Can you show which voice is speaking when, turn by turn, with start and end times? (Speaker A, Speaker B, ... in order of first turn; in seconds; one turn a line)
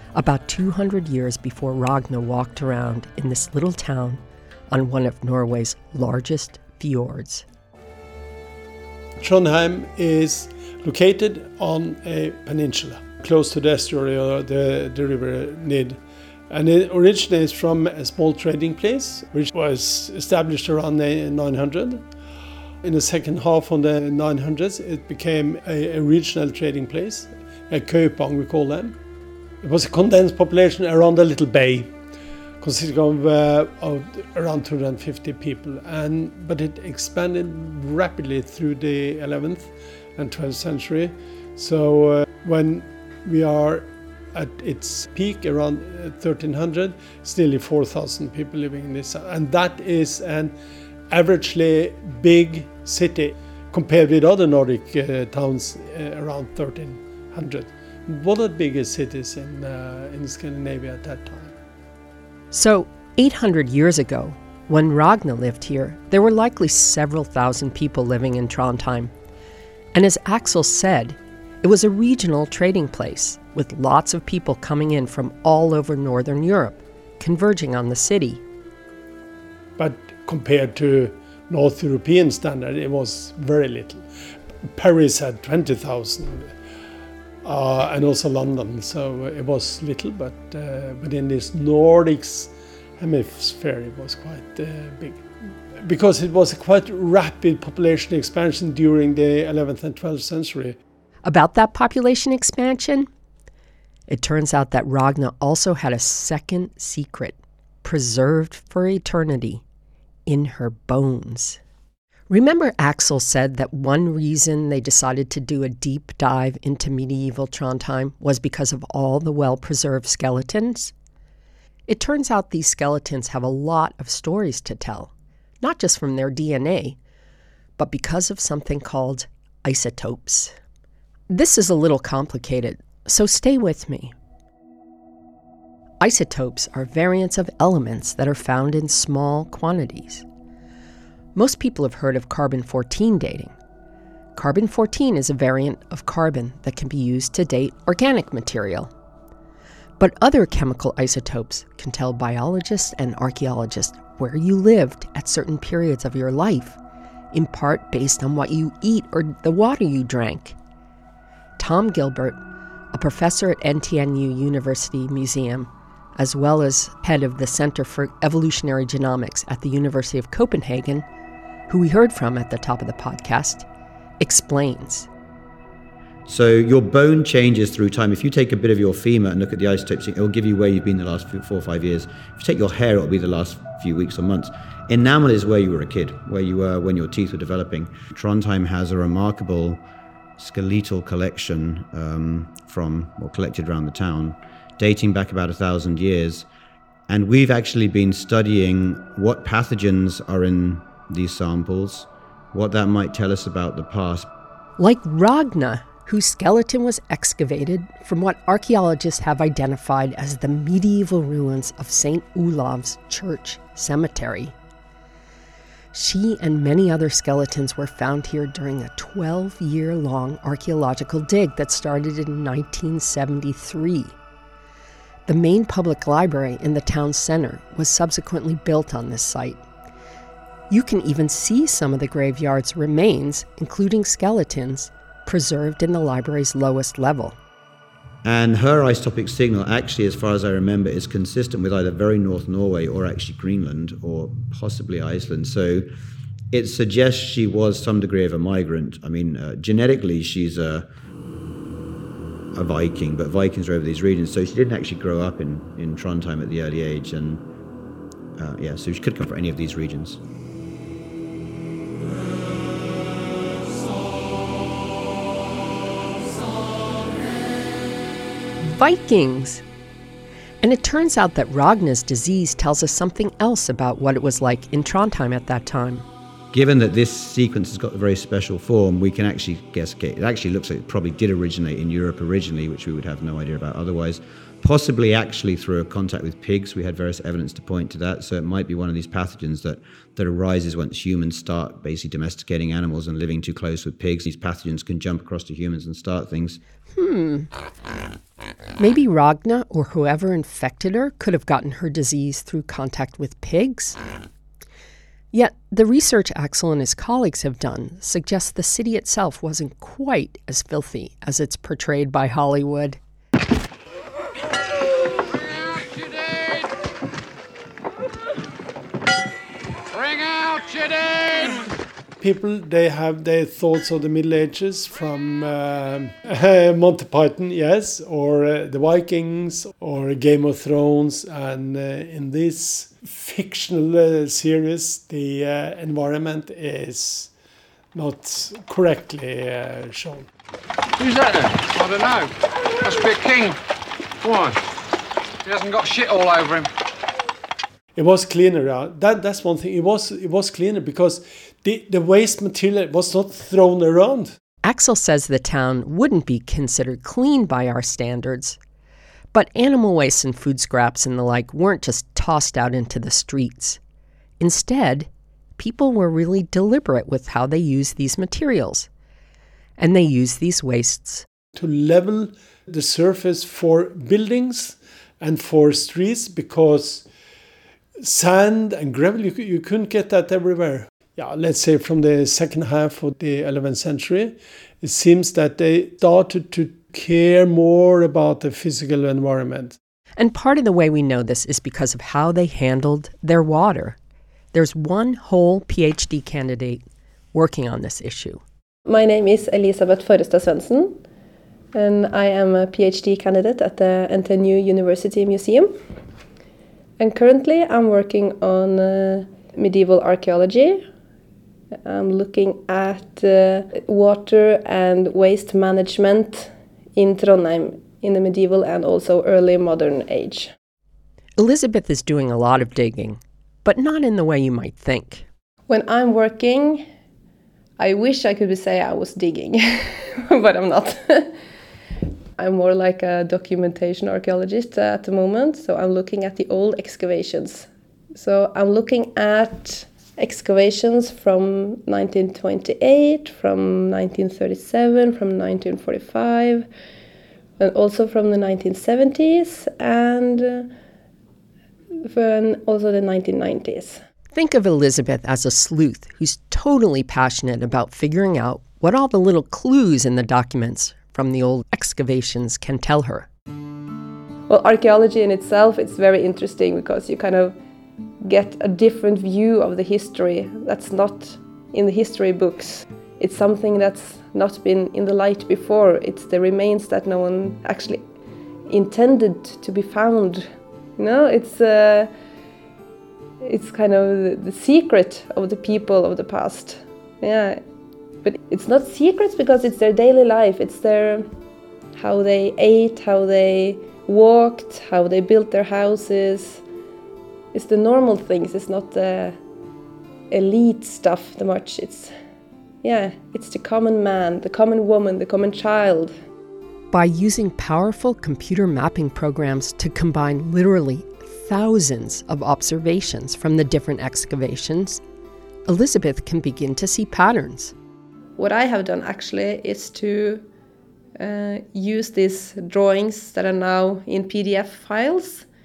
Speaker A: 0.1-7.4
Speaker B: 9.2-16.0
Speaker B: 16.5-22.1
Speaker B: 22.8-29.0
Speaker B: 29.6-31.9
Speaker B: 32.6-50.5
Speaker B: 51.1-61.5
Speaker A: 62.5-69.1
Speaker A: 69.9-78.4
Speaker B: 79.8-84.0
Speaker B: 84.7-86.5
Speaker B: 87.4-95.2
Speaker B: 95.8-100.8
Speaker A: 101.2-103.1
Speaker A: 104.1-109.6
Speaker A: 110.3-111.6
Speaker A: 112.3-120.9
Speaker A: 121.9-127.0
Speaker A: 127.8-130.5
Speaker A: 131.3-134.1
Speaker A: 136.0-140.2
Speaker A: 141.3-143.5
Speaker A: 144.3-148.9
Speaker A: 150.0-156.8
Speaker A: 157.3-160.6
Speaker A: 161.6-162.4
Speaker A: 162.9-171.1
Speaker A: 171.7-173.7
Speaker A: 174.2-175.1
Speaker C: 176.3-189.8
Speaker C: 190.4-196.5
Speaker C: 197.1-204.3
Speaker A: 204.8-214.5
Speaker A: 215.9-224.1
Speaker A: 225.3-229.6
Speaker A: 230.7-237.3
Speaker C: 238.2-245.8
Speaker C: 246.5-250.8
Speaker C: 252.6-257.4
Speaker C: 258.4-260.2
Speaker A: 268.6-269.6
Speaker A: 270.6-276.1
Speaker C: 276.5-296.6
Speaker A: 296.9-297.5
Speaker A: 298.8-304.0
Speaker A: 305.3-313.0
Speaker D: 315.6-316.7
Speaker D: 319.9-321.6
Speaker B: 322.2-337.3
Speaker B: 337.9-340.3
Speaker D: 341.0-343.6
Speaker D: 344.2-344.6
Speaker D: 345.4-346.7
Speaker B: 347.9-354.4
Speaker A: 354.6-358.6
Speaker A: 359.3-363.8
Speaker A: 364.4-368.9
Speaker A: 369.8-371.2
Speaker B: 371.6-377.1
Speaker B: 378.0-389.8
Speaker A: 390.2-394.0
Speaker A: 394.5-398.4
Speaker E: 398.9-401.0
Speaker E: 401.7-405.7
Speaker E: 407.0-410.8
Speaker E: 411.8-420.5
Speaker A: 421.4-425.3
Speaker E: 425.7-426.8
Speaker E: 427.8-431.3
Speaker E: 432.4-446.7
Speaker E: 447.6-450.7
Speaker E: 452.0-454.0
Speaker A: 454.3-463.3
Speaker E: 464.5-467.5
Speaker E: 468.2-478.0
Speaker E: 478.7-482.1
Speaker E: 483.4-487.6
Speaker E: 488.2-491.3
Speaker E: 491.9-496.6
Speaker E: 497.5-499.4
Speaker E: 500.3-502.1
Speaker E: 502.8-506.1
Speaker A: 506.9-515.0
Speaker A: 515.6-517.7
Speaker E: 518.4-520.5
Speaker E: 521.2-525.5